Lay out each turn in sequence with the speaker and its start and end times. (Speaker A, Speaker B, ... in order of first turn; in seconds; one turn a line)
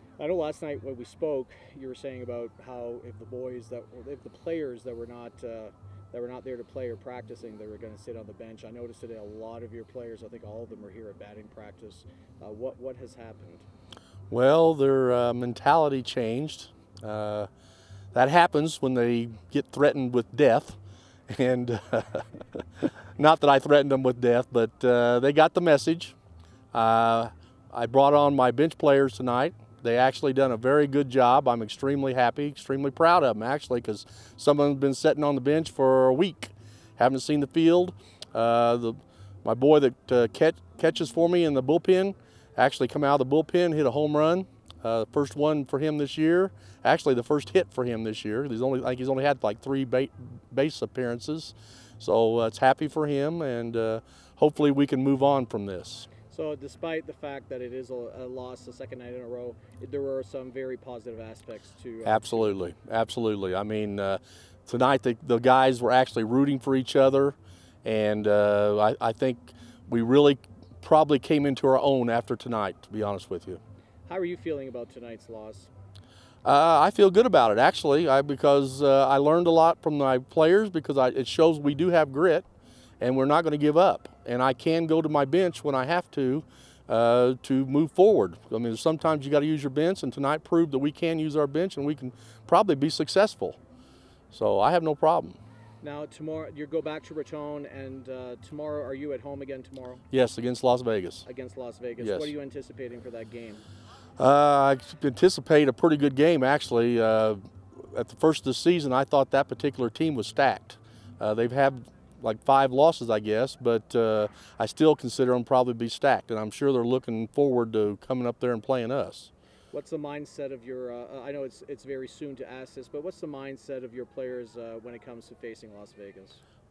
Speaker A: 0.2-13.7
Speaker B: 14.3-17.5
Speaker B: 18.1-20.8
Speaker B: 21.3-26.1
Speaker B: 26.7-56.1
Speaker A: 56.3-62.6
Speaker B: 62.0-73.6
Speaker A: 74.1-75.7
Speaker B: 76.4-82.5
Speaker B: 83.0-93.6
Speaker B: 94.3-95.4
Speaker A: 95.8-100.0
Speaker B: 100.1-101.2
Speaker A: 101.2-103.6
Speaker B: 102.0-102.3
Speaker B: 104.2-119.3
Speaker A: 119.7-126.4